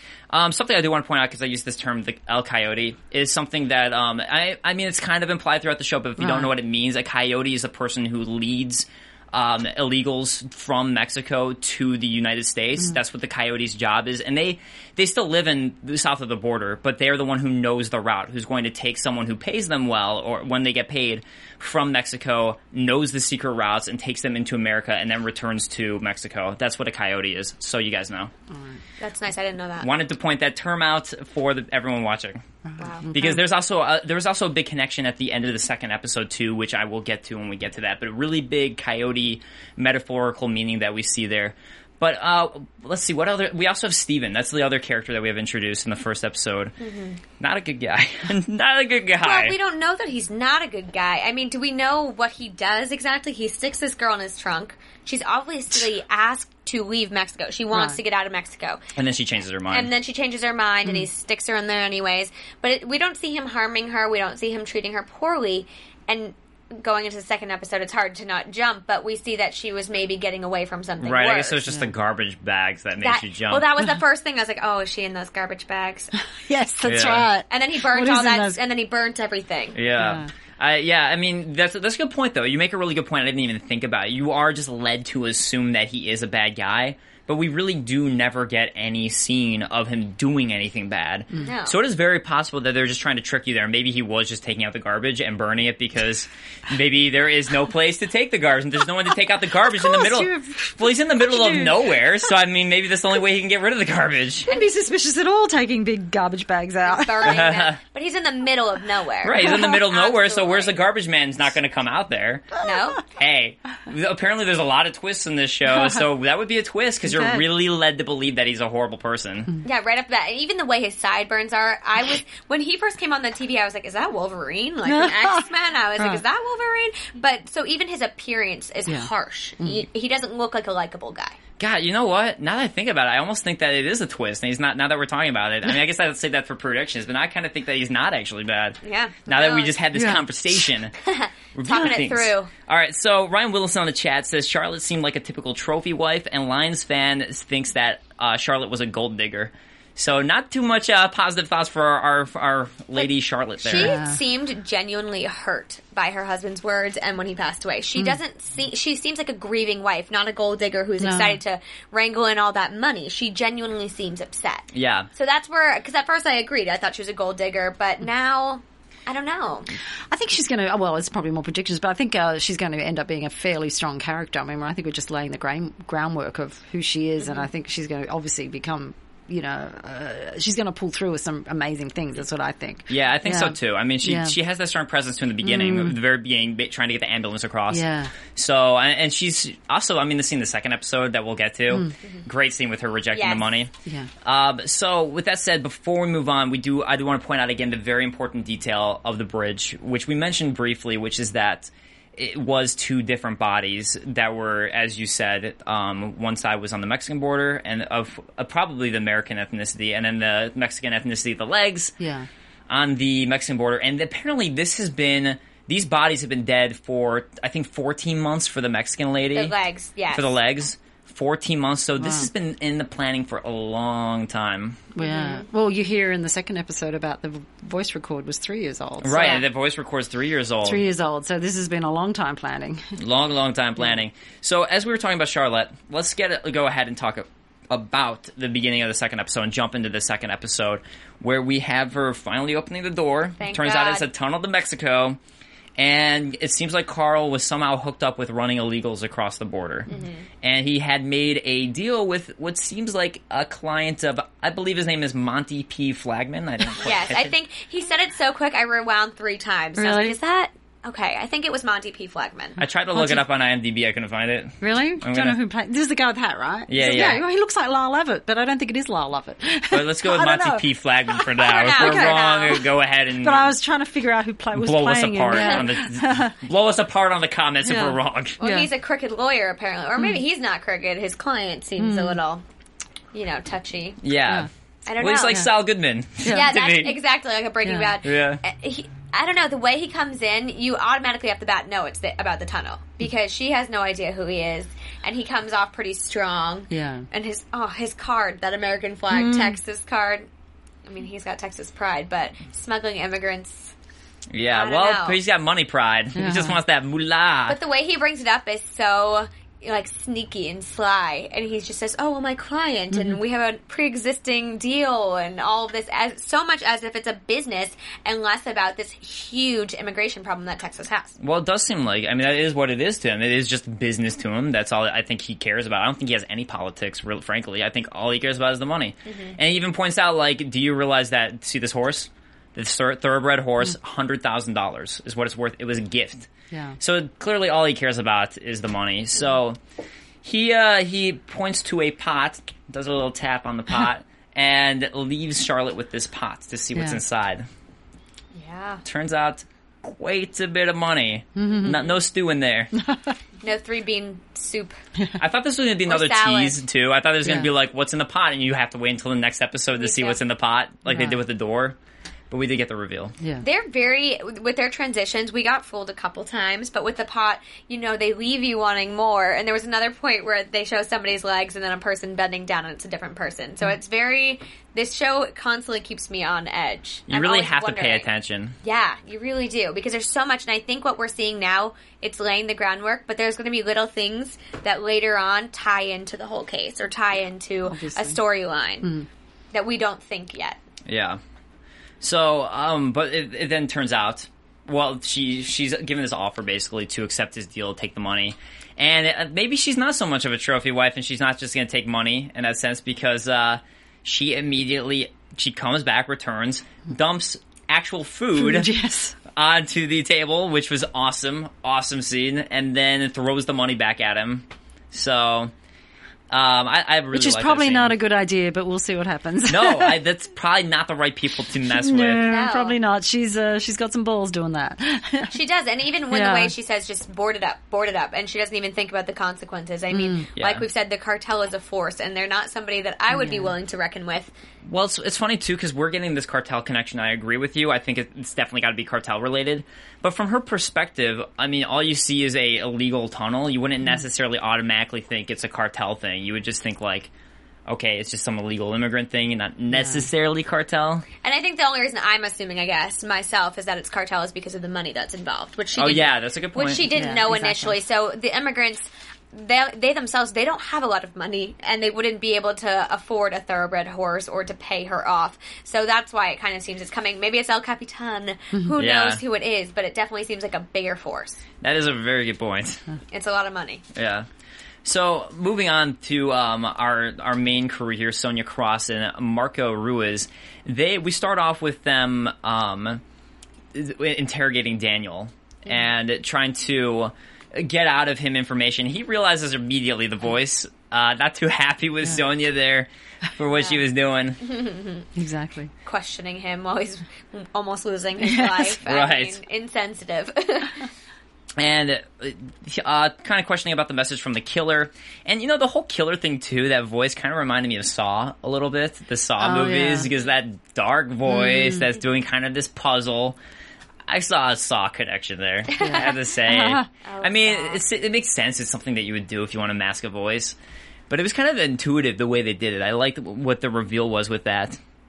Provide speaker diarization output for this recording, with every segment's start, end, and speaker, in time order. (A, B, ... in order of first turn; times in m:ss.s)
0:00.3-0:28.3 A
0:06.2-0:06.5 B
0:28.5-0:28.8 B
0:29.0-0:29.9 C
0:29.8-0:32.4 A
0:32.7-0:33.4 B
0:32.8-0:33.1 C
0:33.1-0:46.8 A
0:46.8-0:47.2 C
0:47.4-0:49.6 A
0:49.2-0:58.8 C
0:57.7-0:58.0 B
0:59.0-0:59.9 A
0:59.7-1:11.6 C
1:11.0-1:13.7 A
1:13.0-1:16.1 C
1:16.3-1:18.6 B
1:16.8-1:17.3 A
1:17.5-1:19.8 C
1:19.7-1:44.5 A
1:20.0-1:20.3 B
1:31.4-1:31.8 C
1:39.8-1:42.0 B
1:44.4-1:47.4 B
1:46.8-1:50.8 C
1:47.2-1:47.8 A
1:49.2-1:59.5 A
1:52.6-1:53.0 C
1:55.7-1:56.0 B
1:57.0-1:57.4 B
1:59.6-2:11.4 C
2:04.8-2:05.4 B
2:11.6-2:20.9 A
2:18.8-2:19.7 C
2:19.9-2:20.2 B
2:21.0-2:22.5 C
2:21.5-2:34.0 A
2:33.6-2:49.7 C
2:33.7-2:34.2 B
2:41.0-2:41.4 B
2:44.7-2:45.1 A
2:50.1-3:04.4 B
3:02.9-3:13.7 A
3:05.4-3:06.0 B
3:07.7-3:08.1 B
3:13.1-3:13.5 C
3:14.2-3:31.9 A
3:32.0-3:32.3 B
3:32.7-3:39.5 A
3:39.3-3:40.4 C
3:40.1-3:44.9 A
3:42.0-3:42.3 B
3:44.9-3:49.4 B
3:45.0-3:45.4 C
3:49.0-3:50.8 A
3:49.1-3:49.4 C
3:50.6-3:52.9 B
3:53.0-4:05.2 A
4:03.4-4:04.1 C
4:05.8-4:09.9 A
4:09.9-4:10.2 C
4:10.4-4:17.3 A
4:16.8-4:22.6 C
4:19.8-4:20.2 B
4:22.6-4:25.4 A
4:22.9-4:23.2 B
4:24.6-4:32.6 B
4:26.7-4:27.2 A
4:29.7-4:33.5 A
4:31.4-4:32.6 C
4:33.2-4:36.3 B
4:34.5-4:38.4 A
4:35.3-4:35.6 C
4:37.6-4:38.7 B
4:38.4-4:42.4 C
4:41.8-4:42.2 B
4:43.1-4:44.0 C
4:44.0-4:44.5 A
4:44.8-4:45.5 C
4:45.0-4:47.0 A
4:46.2-4:46.5 B
4:46.3-5:00.3 C
4:47.6-4:47.9 B
4:48.0-4:48.4 A
4:56.7-4:57.1 B
4:59.1-4:59.6 B
5:00.8-5:03.7 C
5:04.3-5:07.6 A
5:04.5-5:05.2 C
5:06.1-5:06.6 B
5:07.5-5:21.2 C
5:12.9-5:13.2 B
5:21.2-5:39.6 A
5:29.0-5:29.4 C
5:36.5-5:36.8 B
5:40.2-5:47.4 A
5:48.3-5:48.8 C
5:48.8-5:52.7 A
5:51.4-5:51.8 B
5:52.7-5:53.2 B
5:53.4-5:54.8 C
5:55.2-6:01.8 A
5:55.8-5:56.6 C
5:57.2-5:57.5 B
5:59.8-6:00.2 C
6:00.9-6:01.2 B
6:02.3-6:03.1 A
6:03.2-6:03.4 B
6:03.4-6:18.1 C
6:17.1-6:18.6 A
6:18.6-6:28.9 C
6:27.7-6:28.2 B
6:29.5-6:30.6 C
6:30.8-6:31.2 A
6:32.0-6:48.7 A
6:48.4-6:49.1 B
6:49.3-6:55.5 A
6:56.3-6:57.9 A
6:57.1-7:00.0 B
6:59.4-7:02.3 A
7:01.6-7:05.4 B
7:02.2-7:02.8 C
7:05.3-7:14.3 C
7:06.1-7:06.5 B
7:09.9-7:10.2 B
7:10.4-7:10.6 A
7:13.1-7:13.5 B
7:14.7-7:27.1 A
7:27.7-7:31.0 A
7:29.7-7:30.1 B
7:31.2-7:51.4 C
7:35.8-7:36.9 A
7:36.9-7:37.8 B
7:48.8-7:49.2 A
7:51.6-7:52.8 A
7:53.1-7:53.8 C
7:53.9-7:54.3 A
7:54.8-8:03.0 A
8:03.7-8:14.4 A
8:13.6-8:13.8 C
8:14.4-8:15.1 C
8:15.1-8:15.7 B
8:15.8-8:20.8 C
8:18.2-8:18.7 B
8:18.8-8:19.4 A
8:21.6-8:33.4 A
8:29.4-8:30.1 B
8:31.3-8:31.8 B
8:34.1-8:40.6 A
8:35.7-8:36.2 C
8:35.8-8:36.9 B
8:37.0-8:37.8 C
8:41.1-8:44.8 A